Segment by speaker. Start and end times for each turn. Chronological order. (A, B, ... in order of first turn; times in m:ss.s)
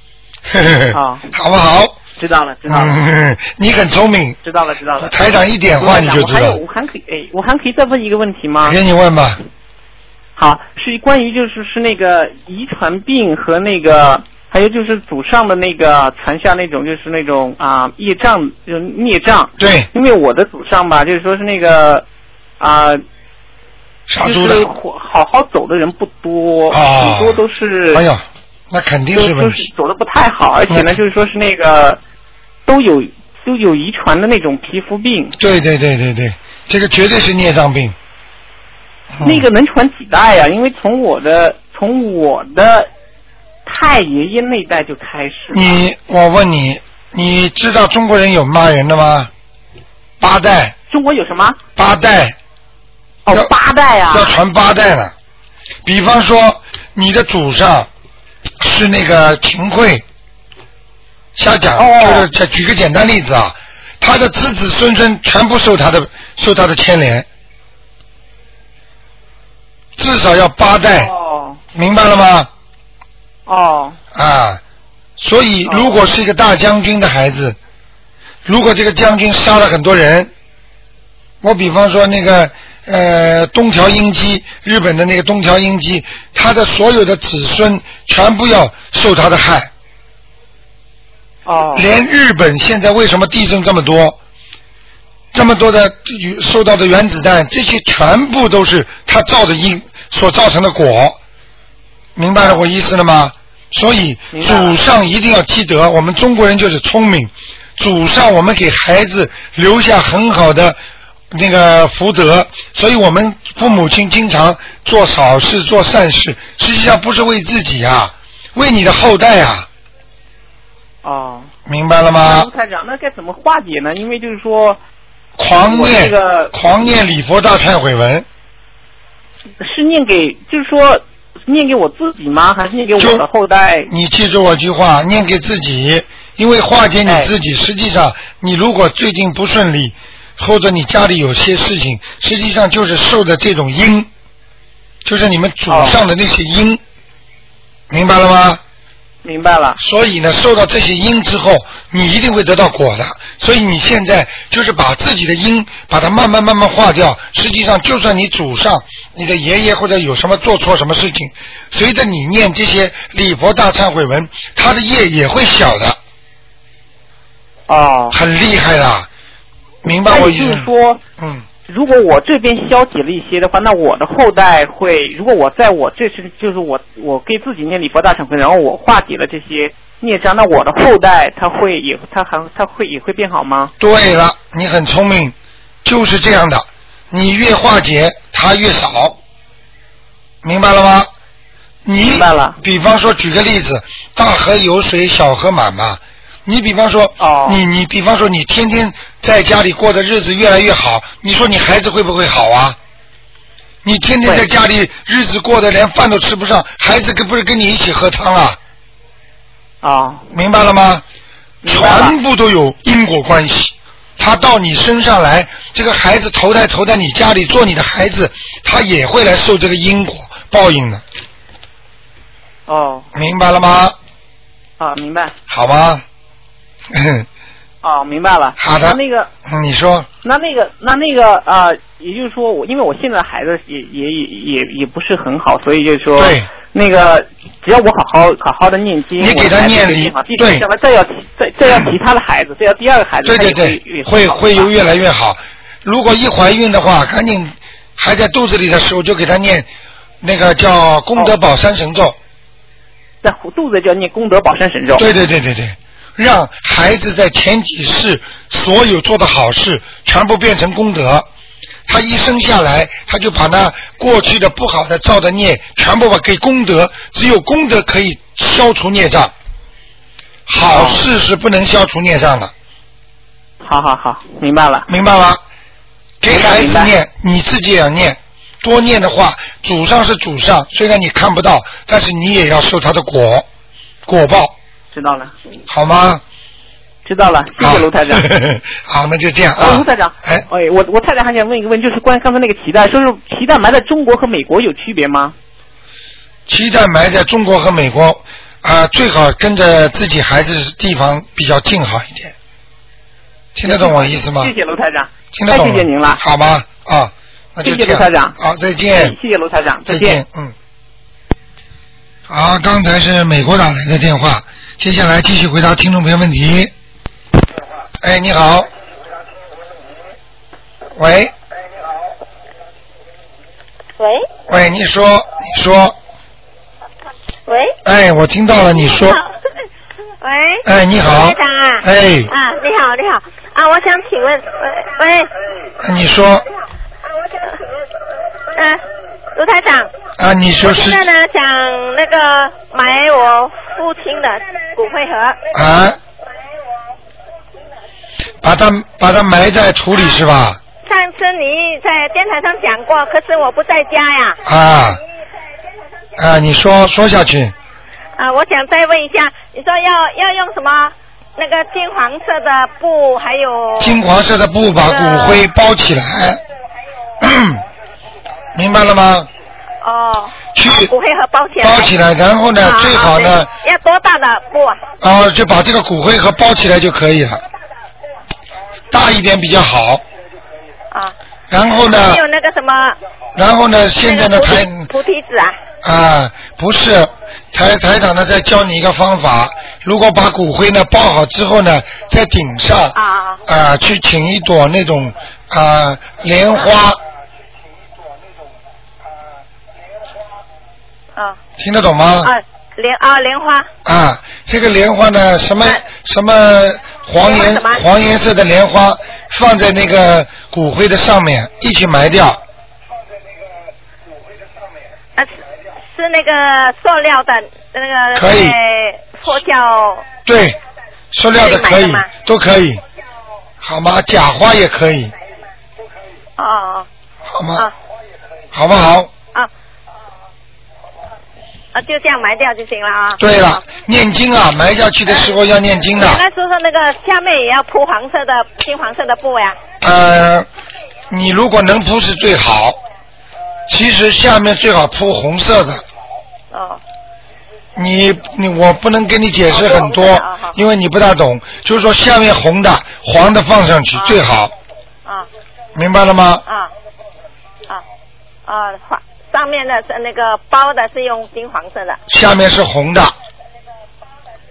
0:00.5-0:02.0 A
0:00.9-0:01.3 B
0:02.2-0:03.0 B
0:02.6-0:04.4 A
0:04.4-0:05.1 B
0:05.0-0:06.6 A
0:05.8-0:08.8 B
0:08.6-0:09.4 A
0:10.4-0:22.0 B
0:19.6-0:19.9 A
0:22.6-0:23.0 B
0:24.1-0:24.7 A
0:24.2-0:28.0 B
0:26.7-0:29.7 A
0:29.1-0:32.0 B
0:30.7-0:30.9 A
0:32.7-0:35.4 B
0:35.4-0:38.0 A
0:39.1-0:39.5 A
0:39.2-0:42.9 B
0:43.6-0:45.7 B
0:45.5-0:49.3 A
0:50.2-0:50.7 A
0:50.9-0:51.6 B
0:51.8-0:52.4 A
0:53.2-0:54.3 B
0:54.1-0:55.1 A
0:55.8-0:57.9 A
0:58.6-1:00.0 A
1:01.3-1:07.2 A
1:01.8-1:02.3 B
1:10.0-1:11.1 A
1:10.9-1:11.6 B
1:11.7-1:12.5 A
1:13.5-1:14.0 B
1:14.1-1:14.6 A
1:15.2-1:17.6 A
1:15.6-1:16.0 B
1:18.4-1:20.3 A
1:21.4-1:29.7 A
1:31.4-1:31.9 B
1:31.7-1:34.2 A
1:35.3-1:41.2 A
1:42.2-1:50.8 A
1:44.3-1:44.8 B
1:51.3-1:59.7 A
2:01.0-2:01.5 B
2:01.7-2:02.5 A
2:02.2-2:04.8 B
2:05.4-2:08.2 A
2:05.6-2:06.5 B
2:09.6-2:13.9 B
2:13.0-2:13.2 A
2:13.9-2:24.1 A
2:17.0-2:17.3 B
2:25.0-2:26.8 A
2:25.7-2:26.0 B
2:27.9-2:28.6 A
2:29.2-2:29.8 B
2:29.8-2:46.0 A
2:47.7-2:48.2 B
2:48.1-2:49.1 A
2:49.8-2:51.4 A
2:50.0-2:51.0 B
2:51.7-3:03.7 B
3:03.8-3:09.2 A
3:10.4-3:11.1 A
3:11.8-3:22.8 A
3:12.0-3:12.6 B
3:17.2-3:17.6 B
3:23.8-3:28.6 A
3:29.8-3:30.2 B
3:30.3-3:31.0 A
3:31.6-3:32.2 B
3:31.6-3:41.0 A
3:42.7-3:43.1 B
3:43.1-3:44.0 A
3:44.8-3:45.3 B
3:45.5-3:46.0 A
3:46.9-3:47.3 A
3:47.8-3:49.3 B
3:48.6-3:50.1 A
3:50.2-4:04.7 B
3:56.2-3:56.5 A
3:59.2-4:00.6 A
4:03.2-4:09.7 A
4:10.2-4:12.2 A
4:13.2-4:15.1 B
4:14.9-4:21.3 A
4:21.8-4:29.3 A
4:30.5-4:32.5 A
4:30.7-4:31.0 B
4:33.6-4:34.9 B
4:34.9-4:35.4 A
4:36.2-4:43.4 A
4:36.3-4:36.9 B
4:44.0-4:44.5 A
4:44.9-4:45.3 B
4:45.7-4:46.2 A
4:47.0-4:48.3 B
4:47.6-4:50.4 A
4:49.6-4:55.3 B
4:56.5-5:02.3 A
5:03.5-5:04.5 A
5:03.6-5:06.2 B
5:05.3-5:09.2 A
5:07.6-5:08.4 B
5:08.9-5:10.2 B
5:09.8-5:10.5 A
5:12.3-5:16.7 A
5:18.0-5:18.7 A
5:21.0-5:21.3 A
5:24.0-5:24.3 C
5:24.5-5:26.0 A
5:27.5-5:27.8 C
5:27.8-5:29.2 A
5:28.8-5:29.3 C
5:30.2-5:35.3 C
5:30.6-5:32.3 A
5:35.8-5:36.4 A
5:38.5-5:38.8 C
5:39.3-5:39.9 C
5:40.2-5:41.0 A
5:40.6-5:45.4 C
5:45.5-5:46.0 A
5:48.4-5:50.6 A
5:50.8-5:54.4 C
5:54.4-5:55.0 A
5:56.2-5:57.5 A
5:58.2-6:04.0 C
6:03.8-6:06.4 A
6:04.8-6:05.4 C
6:07.2-6:07.6 A
6:08.5-6:09.3 A
6:09.8-6:11.9 C
6:10.5-6:10.9 A
6:11.6-6:13.5 A
6:12.6-6:14.8 C
6:15.0-6:17.4 A
6:18.9-6:20.0 A
6:21.5-6:22.2 A
6:21.8-6:23.0 C
6:23.4-6:24.9 A
6:24.0-6:25.6 C
6:25.8-6:37.0 A
6:32.9-6:33.4 C
6:41.6-6:42.3 A
6:42.2-6:43.7 C
6:43.8-6:52.4 A
6:47.2-6:47.8 C
6:55.9-7:00.1 C
6:58.1-6:58.6 A
7:00.2-7:00.6 A
7:01.1-7:02.8 A
7:01.4-7:02.1 C
7:03.6-7:05.1 A
7:06.4-7:06.9 C
7:07.3-7:07.7 A
7:08.5-7:09.1 A
7:11.7-7:13.6 C
7:13.2-7:16.2 A
7:15.1-7:19.6 C
7:19.8-7:20.5 A
7:21.1-7:22.8 A
7:23.7-7:25.8 A
7:26.5-7:26.8 C
7:27.8-7:34.5 A
7:29.5-7:30.6 C
7:35.8-7:36.4 A
7:38.4-7:42.0 C
7:42.1-7:43.1 A